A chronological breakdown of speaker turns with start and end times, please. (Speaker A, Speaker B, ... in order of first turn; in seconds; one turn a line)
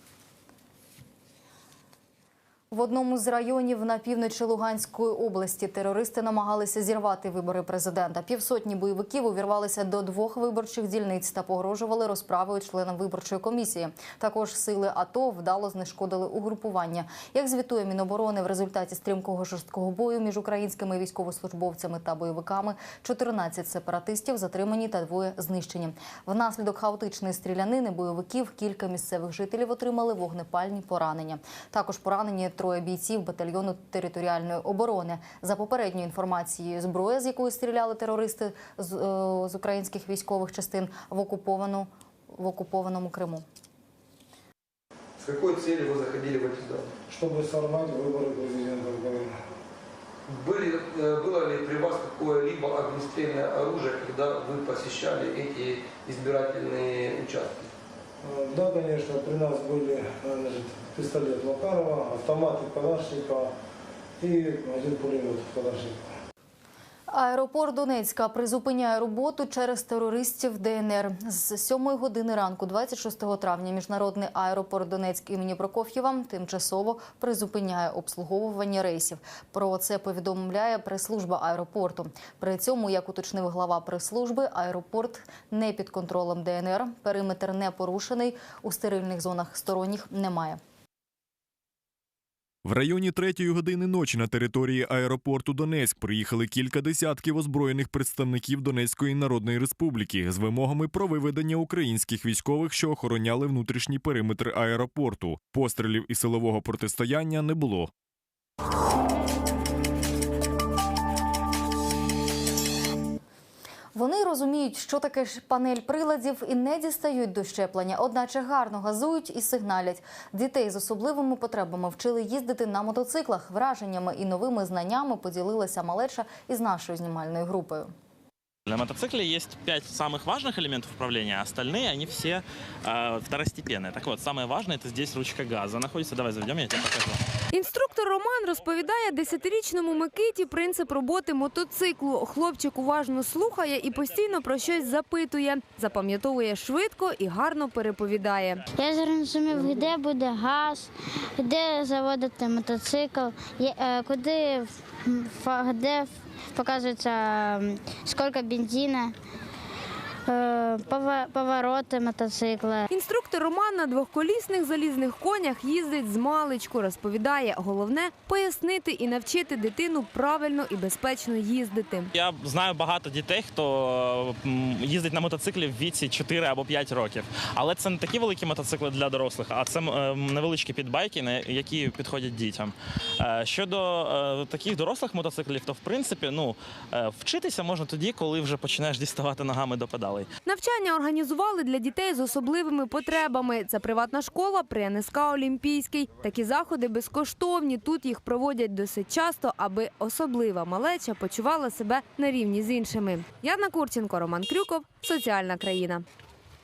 Speaker A: 2.7-43.4
Speaker B: 45.2-46.9
Speaker C: 47.1-49.3
Speaker B: 50.3-57.7
Speaker C: 58.2-63.5
Speaker C: 64.2-66.1
Speaker A: 67.1-90.6
Speaker D: 92.6-107.9
Speaker A: 113.9-127.9
Speaker E: 128.7-137.2
Speaker F: 137.5-148.6
Speaker G: 148.7-159.1
Speaker G: 160.3-162.9
Speaker F: 162.9-172.1
Speaker E: 172.1-190.2
Speaker F: 190.4-206.0